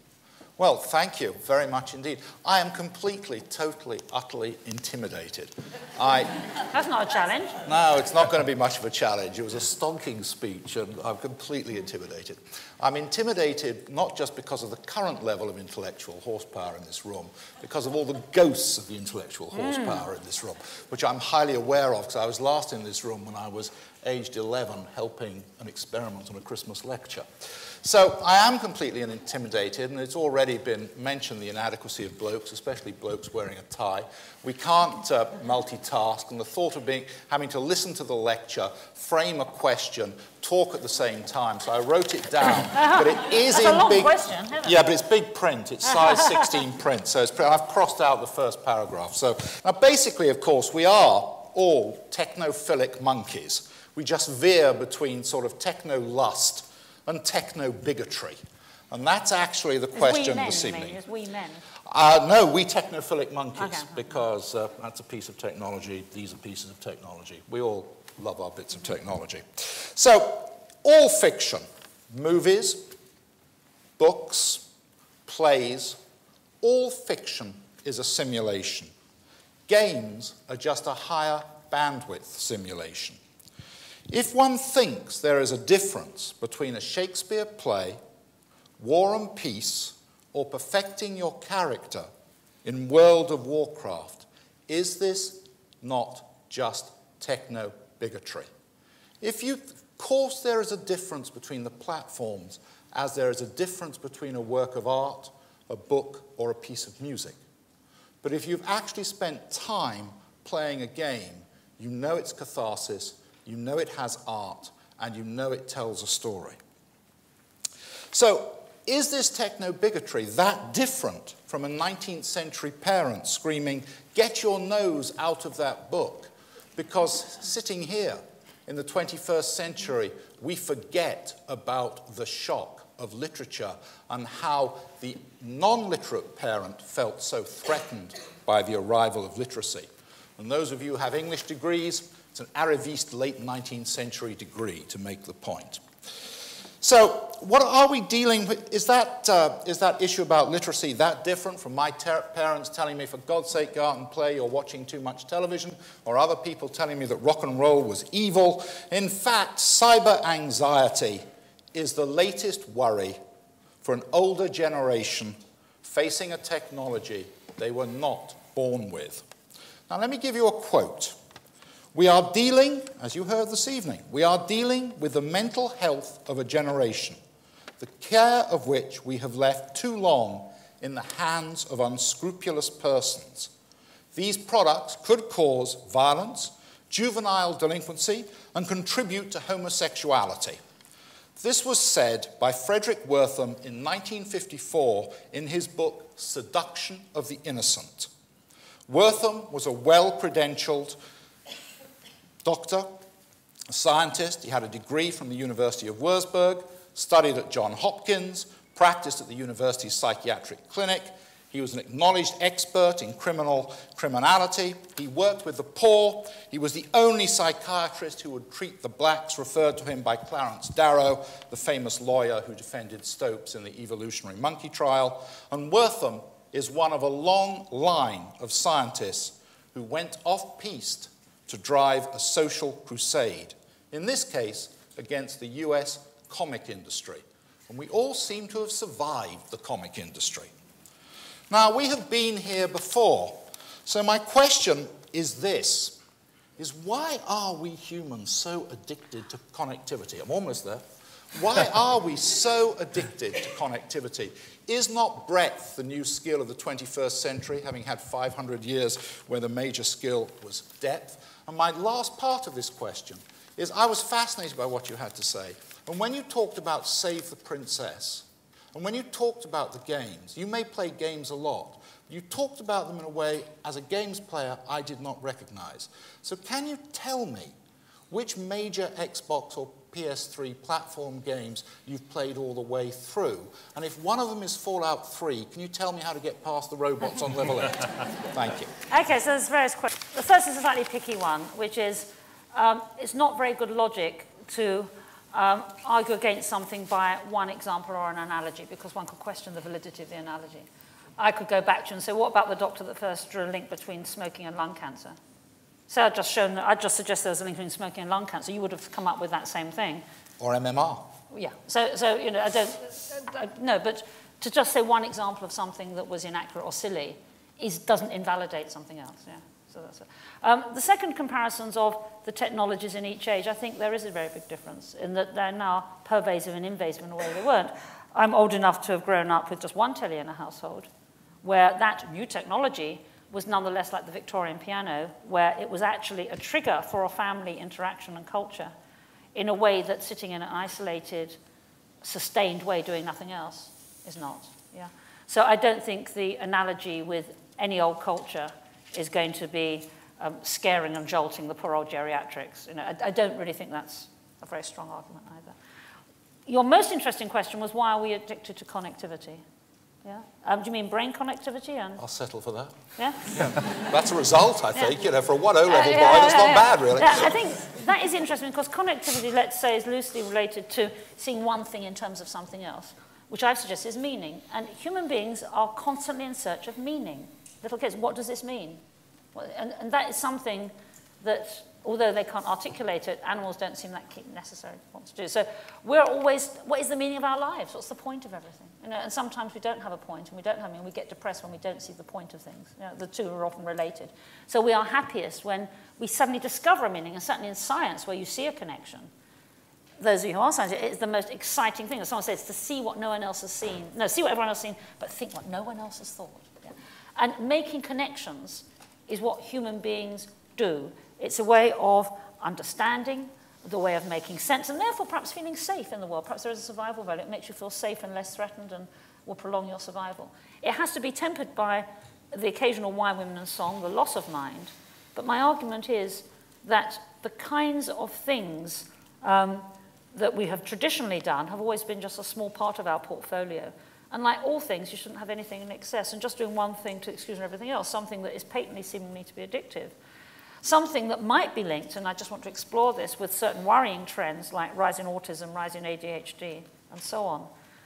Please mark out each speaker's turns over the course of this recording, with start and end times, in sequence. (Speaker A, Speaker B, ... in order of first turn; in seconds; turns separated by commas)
Speaker A: 0.6-6.3, Speaker B: 6.7-7.6, Speaker A: 7.6-58.4, Speaker B: 19.5-20.1, Speaker B: 42.7-44.8, Speaker A: 58.9-61.0, Speaker B: 59.9-61.6, Speaker A: 61.9-72.9, Speaker B: 63.5-64.0, Speaker A: 74.0-74.7, Speaker A: 75.2-76.0, Speaker A: 76.6-78.9, Speaker A: 79.7-83.2, Speaker A: 84.1-88.0, Speaker A: 88.8-92.1, Speaker A: 92.6-98.5, Speaker A: 99.2-107.4, Speaker A: 108.2-116.6, Speaker A: 118.1-145.8, Speaker A: 146.8-163.2, Speaker A: 163.8-169.2, Speaker A: 169.9-171.2, Speaker A: 171.9-177.2, Speaker A: 177.8-183.5, Speaker A: 184.1-190.6, Speaker A: 191.4-198.1, Speaker A: 198.9-201.0, Speaker A: 202.4-202.9, Speaker A: 203.7-240.5, Speaker A: 241.5-246.0, Speaker A: 246.6-250.8, Speaker A: 251.3-277.5, Speaker A: 278.1-288.7, Speaker B: 288.9-305.1, Speaker B: 305.9-310.0, Speaker A: 310.4-311.1, Speaker B: 311.3-330.9, Speaker B: 331.4-338.7, Speaker B: 339.3-341.4, Speaker B: 342.0-355.6, Speaker B: 356.4-359.4, Speaker B: 360.0-362.0, Speaker A: 362.0-362.8, Speaker B: 363.0-363.4, Speaker A: 363.3-367.4, Speaker B: 365.6-378.8, Speaker B: 379.3-399.1, Speaker B: 400.0-439.9, Speaker B: 440.6-447.5